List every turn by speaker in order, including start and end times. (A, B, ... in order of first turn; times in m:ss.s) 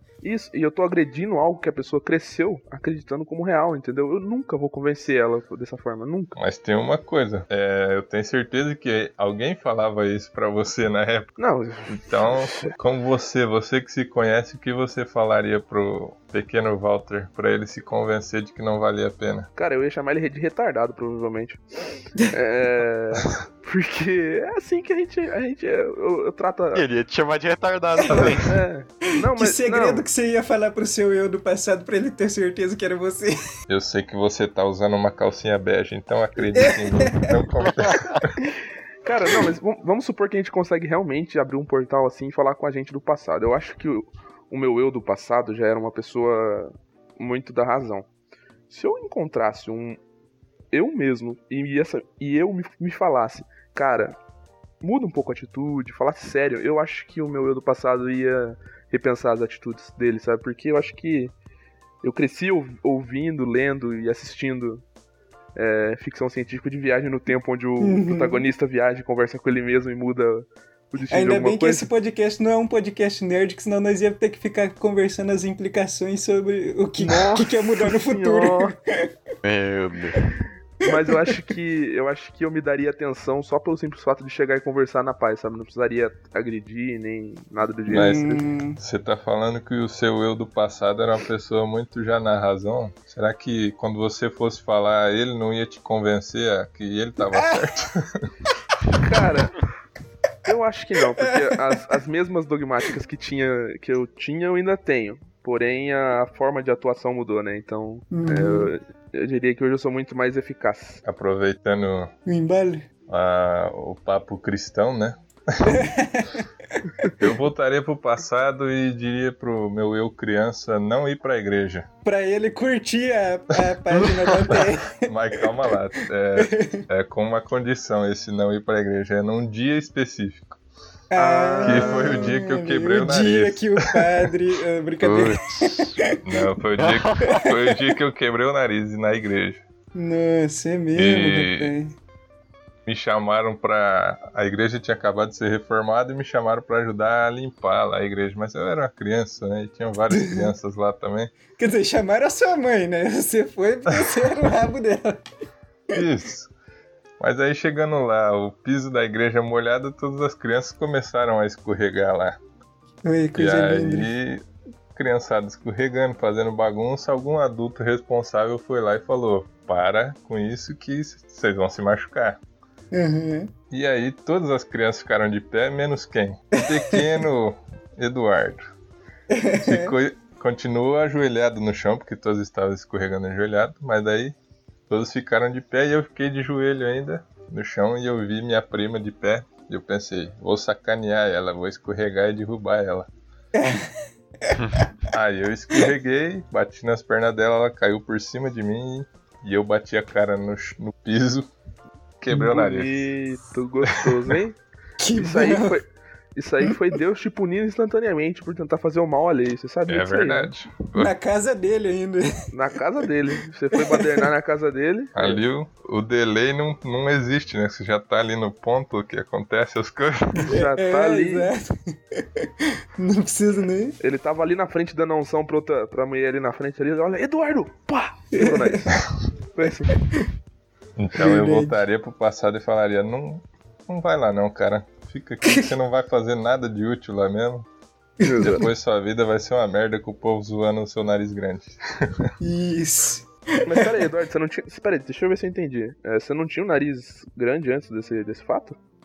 0:00.2-0:06.4 A
0:06.4-0:11.3 B
0:11.4-0:12.7 A
0:11.9-0:19.5 B
0:19.6-0:26.8 A
0:26.7-0:28.5 C
0:28.0-0:28.4 D
0:28.1-0:28.4 B
0:28.4-0:30.0 A
0:29.2-0:33.4 D
0:33.7-0:38.4 B
0:36.5-0:37.4 D
0:37.8-0:38.2 C
0:39.0-0:48.1 A
0:48.7-0:50.0 A
0:50.7-0:54.2 A
0:54.8-1:01.3 A
1:02.0-1:04.8 A
1:05.6-1:11.9 A
1:07.8-1:08.4 D
1:11.1-1:19.1 D
1:17.0-1:18.7 A
1:19.4-1:20.2 C
1:20.8-1:28.4 A
1:27.9-1:28.8 D
1:27.9-1:38.3 B
1:37.3-1:37.6 D
1:39.0-1:39.6 A
1:40.4-1:51.0 A
1:41.2-1:41.6 D
1:48.1-1:48.7 D
1:51.0-1:52.1 B
1:52.2-1:52.8 D
1:53.1-1:55.8 B
1:55.6-1:56.8 D
1:57.2-2:01.9 B
2:02.0-2:05.5 D
2:03.9-2:04.2 C
2:04.5-2:10.6 B
2:06.4-2:06.8 D
2:11.1-2:16.2 D
2:11.1-2:12.2 A
2:11.6-2:14.3 B
2:15.0-2:16.0 C
2:16.2-2:19.6 B
2:16.8-2:17.4 C
2:17.3-2:17.7 D
2:19.9-2:22.0 D
2:21.0-2:21.7 B
2:22.8-2:31.3 B
2:30.1-2:30.5 D
2:31.6-2:35.2 D
2:33.9-2:34.2 B
2:35.9-2:36.5 B
2:37.2-2:42.4 B
2:43.0-2:44.1 D
2:43.4-2:52.4 B
2:52.9-2:53.5 D
2:53.7-2:58.7 B
2:56.6-2:57.2 D
2:59.3-2:59.9 D
2:59.6-3:04.3 B
3:04.9-3:13.1 B
3:13.5-3:14.6 D
3:15.1-3:21.5 B
3:22.2-3:23.1 B
3:22.3-3:24.6 A
3:25.0-3:25.8 D
3:25.2-3:30.5 A
3:29.9-3:31.1 B
3:30.9-3:32.4 D
3:32.5-3:35.4 A
3:33.7-3:34.3 D
3:35.1-3:40.5 B
3:40.4-3:44.0 D
3:40.5-3:41.5 A
3:44.0-3:49.0 A
3:48.3-3:48.9 D
3:49.5-3:50.0 A
3:51.0-3:57.7 B
3:51.2-3:51.8 D
3:58.2-3:58.6 A
3:58.4-4:02.3 B
4:02.4-4:04.0 D
4:03.6-4:08.8 A